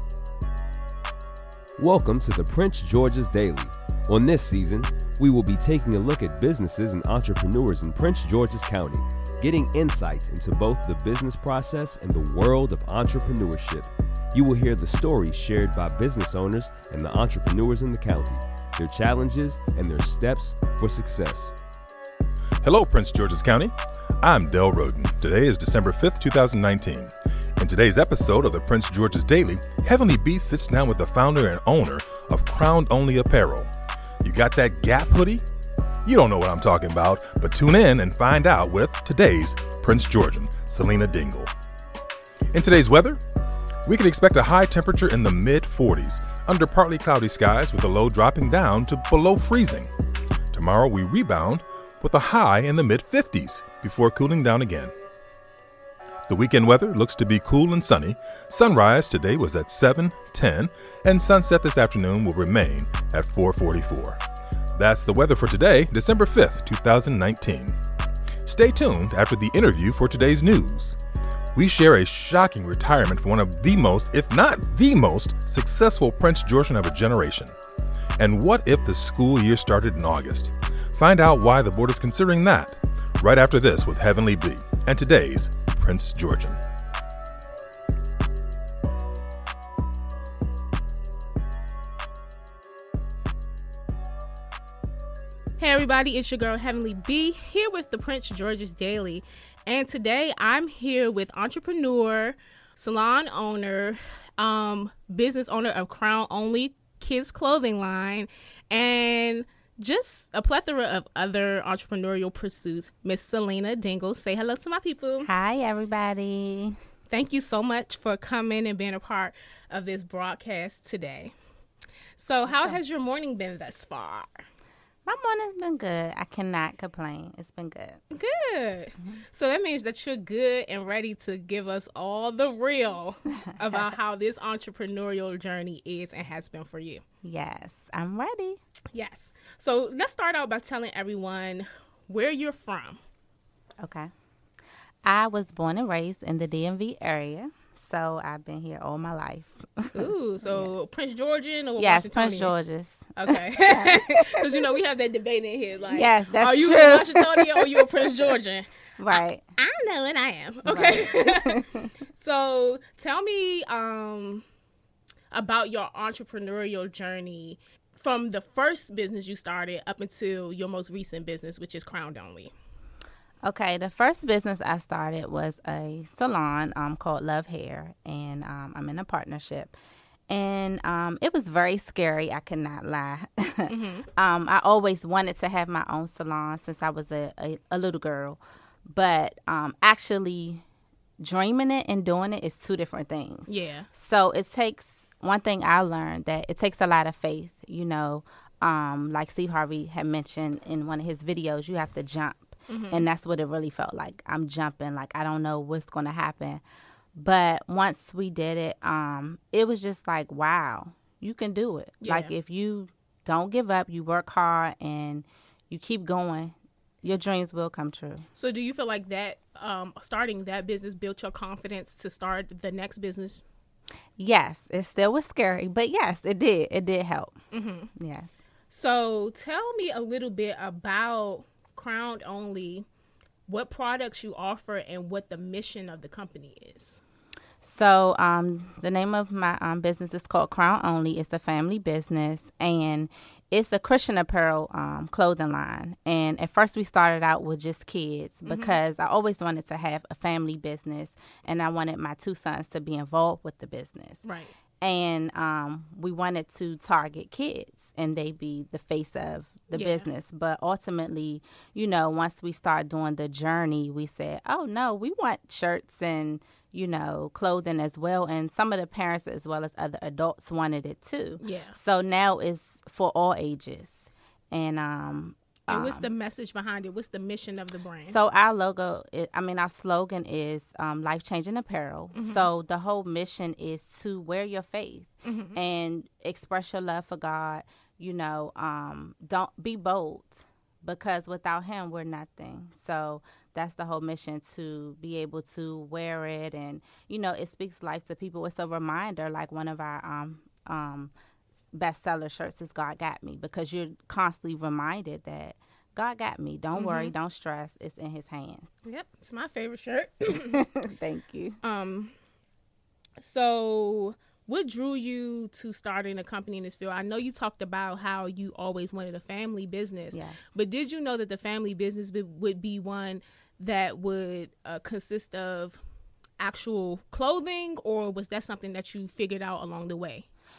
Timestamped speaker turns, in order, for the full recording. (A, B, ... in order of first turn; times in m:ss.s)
0:01.8-0:21.5 A
0:22.6-0:33.7 B
0:34.2-0:35.4 B
0:36.0-0:41.5 B
0:42.5-0:43.2 B
0:43.8-0:49.9 B
0:50.5-0:54.9 B
0:56.3-1:04.2 B
1:04.8-1:07.8 B
1:08.4-1:11.0 B
1:11.5-1:17.5 B
1:18.2-1:26.6 B
1:35.6-1:55.3 C
1:55.2-1:56.8 D
1:57.1-2:01.3 C
2:02.2-2:04.4 C
2:02.5-2:02.8 D
2:05.0-2:08.0 D
2:08.1-2:17.0 C
2:17.2-2:18.6 D
2:18.9-2:23.0 C
2:23.8-2:24.1 D
2:25.0-2:30.7 D
2:29.9-2:32.5 C
2:31.8-2:34.4 D
2:33.2-2:44.4 C
2:35.9-2:37.8 D
2:39.0-2:39.4 D
2:40.6-2:41.9 D
2:45.3-2:52.5 C
2:53.4-2:59.7 D
3:00.3-3:10.6 D
3:03.7-3:04.1 C
3:11.2-3:26.6 D
3:13.5-3:13.9 C
3:22.7-3:23.0 C
3:27.1-3:38.2 D
3:32.0-3:32.3 C
3:38.4-3:43.4 C
3:44.2-3:47.3 D
3:47.5-3:47.9 C
3:48.0-3:48.3 D
3:48.7-3:52.8 C
3:53.5-3:57.0 C
3:57.6-4:14.2 D
4:08.4-4:08.8 C
4:14.2-4:14.5 C
4:14.8-4:36.0 D
4:19.7-4:20.0 C
4:31.4-4:31.8 C
4:35.7-4:38.2 C
4:38.0-5:01.1 D
4:42.1-4:42.5 C
4:45.2-4:45.6 C
5:01.7-5:08.7 D
5:06.7-5:07.1 C
5:08.8-5:10.6 C
5:10.3-5:11.6 D
5:11.6-5:12.1 C
5:13.2-5:25.8 C
5:20.1-5:20.4 D
5:26.4-5:30.2 C